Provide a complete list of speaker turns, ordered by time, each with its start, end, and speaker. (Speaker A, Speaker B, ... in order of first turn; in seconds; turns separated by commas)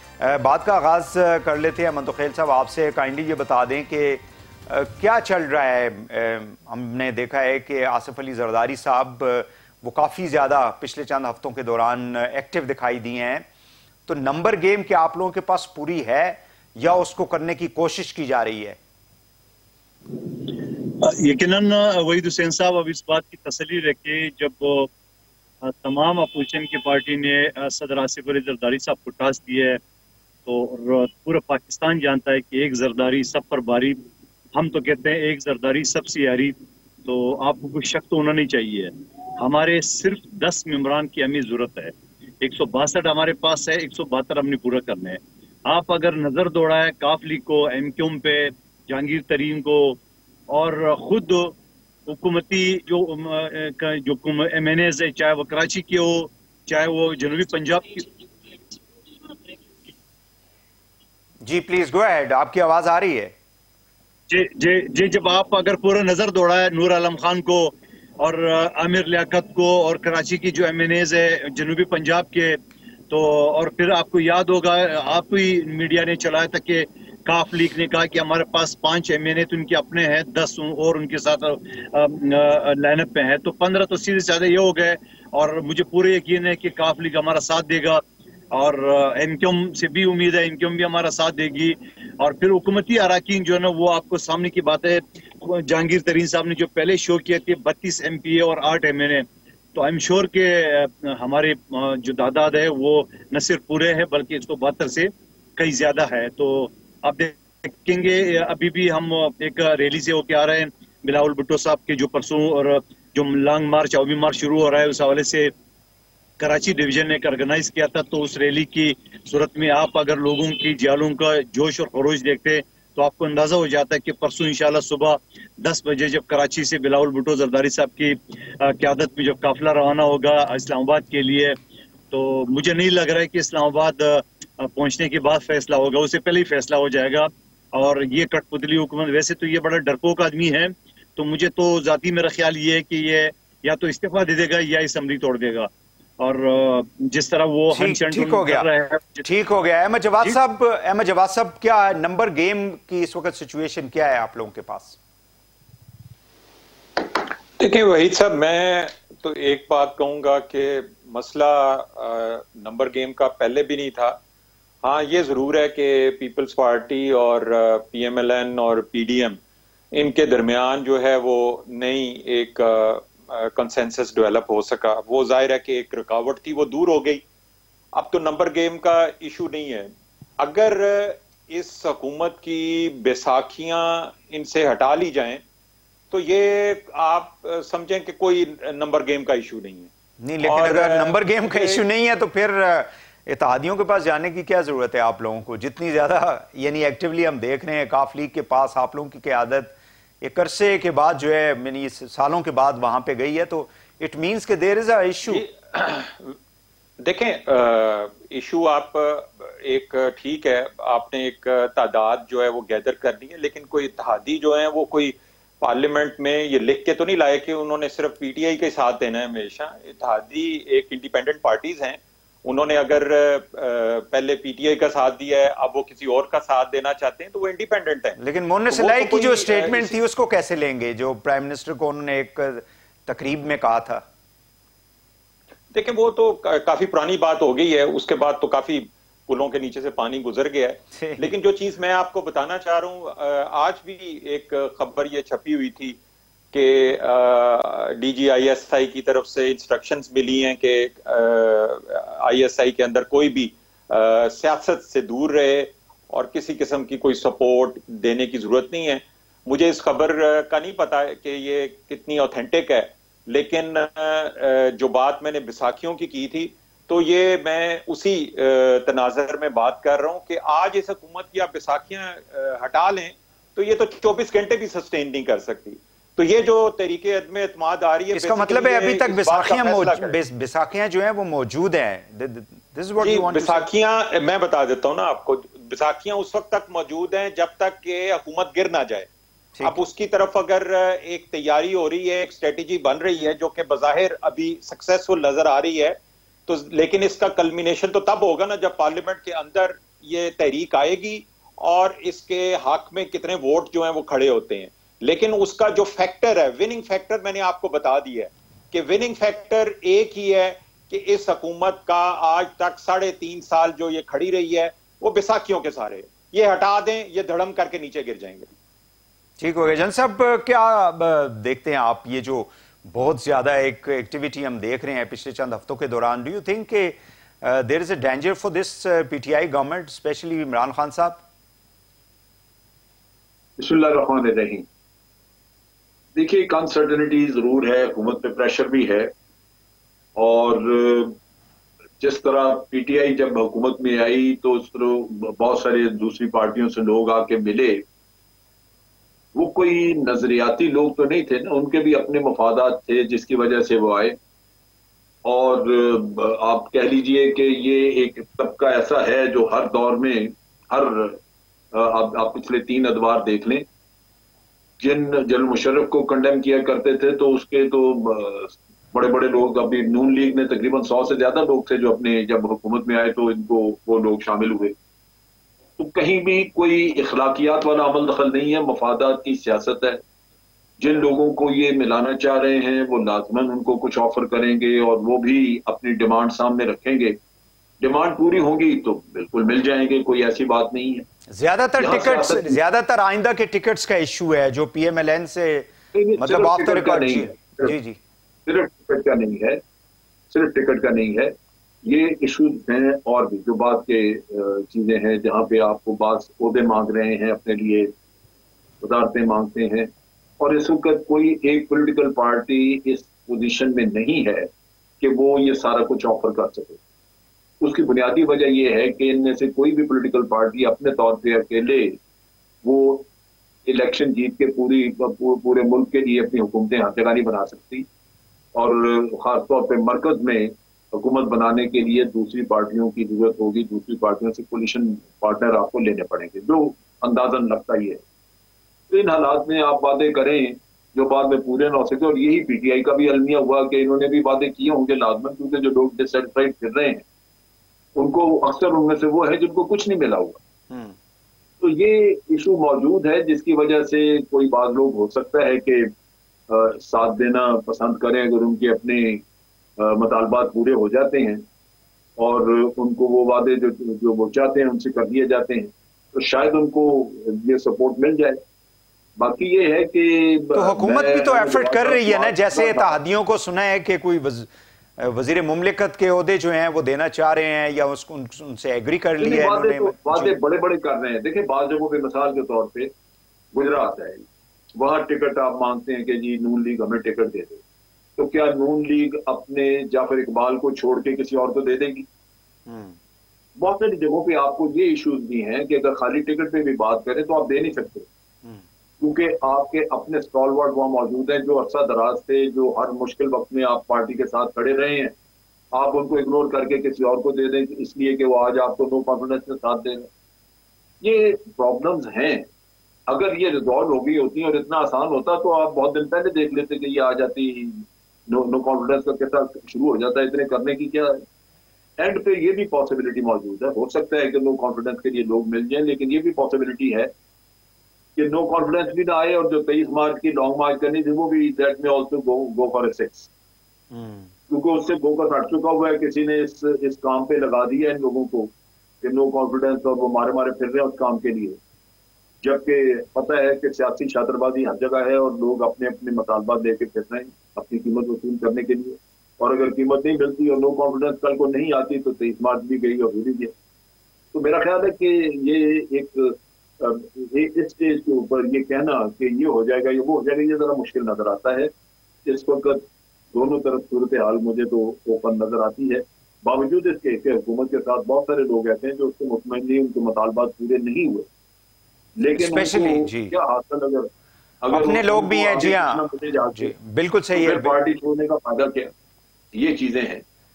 Speaker A: 0.2-13.5, Speaker A: 14.1-18.8, Speaker B: 21.0-24.9, Speaker B: 25.6-29.8, Speaker B: 30.5-34.0, Speaker B: 34.5-50.0, Speaker B: 50.5-51.6, Speaker B: 52.1-58.1, Speaker A: 61.5-63.3, Speaker B: 64.3-72.6, Speaker B: 73.1-88.0, Speaker B: 88.5-115.5, Speaker B: 116.4-131.6, Speaker B: 132.1-149.3, Speaker A: 147.7-148.7, Speaker A: 149.2-155.0, Speaker C: 157.0-164.2, Speaker C: 164.8-169.4, Speaker C: 169.9-177.2, Speaker C: 177.9-185.4, Speaker C: 186.1-189.9, Speaker A: 190.2-205.4, Speaker C: 190.4-191.8, Speaker C: 205.3-206.4, Speaker C: 207.0-228.2, Speaker A: 228.2-234.0, Speaker C: 228.7-230.0, Speaker C: 235.7-246.0, Speaker A: 241.0-241.3, Speaker C: 246.5-280.2, Speaker A: 278.1-283.6, Speaker C: 283.0-289.1, Speaker C: 289.6-318.5, Speaker A: 319.4-331.2, Speaker D: 333.6-334.7, Speaker D: 336.1-339.1, Speaker D: 340.2-341.2, Speaker D: 342.0-347.9, Speaker D: 349.3-354.2, Speaker D: 355.2-361.2, Speaker D: 361.7-363.6, Speaker D: 364.8-374.8, Speaker D: 375.8-380.0, Speaker D: 380.8-387.2, Speaker D: 387.8-391.1, Speaker A: 391.3-398.0, Speaker D: 391.8-392.6, Speaker D: 395.9-397.8, Speaker D: 398.5-399.6, Speaker D: 400.3-407.9, Speaker D: 408.8-414.5, Speaker D: 415.0-416.8, Speaker D: 417.6-422.0, Speaker D: 422.6-423.1, Speaker D: 423.7-427.9, Speaker D: 428.6-438.0, Speaker D: 438.9-447.0, Speaker D: 448.0-450.4, Speaker D: 451.6-455.9, Speaker D: 456.5-459.2, Speaker D: 459.8-461.4, Speaker D: 462.2-468.4, Speaker D: 469.2-472.9, Speaker A: 470.5-480.4, Speaker D: 479.2-482.9, Speaker D: 483.5-484.3, Speaker D: 484.8-487.6, Speaker D: 488.2-492.1, Speaker A: 492.7-493.0, Speaker D: 493.6-498.1, Speaker D: 499.0-505.1, Speaker D: 505.7-510.1, Speaker D: 511.0-512.5, Speaker D: 513.1-521.2, Speaker D: 522.0-527.1, Speaker D: 528.2-533.3, Speaker A: 533.9-534.3, Speaker D: 534.5-541.6, Speaker D: 542.4-553.5, Speaker D: 554.3-561.7, Speaker D: 562.3-571.3, Speaker D: 572.2-576.8, Speaker A: 572.4-573.3, Speaker A: 574.7-577.8, Speaker D: 577.3-578.9, Speaker D: 579.5-580.2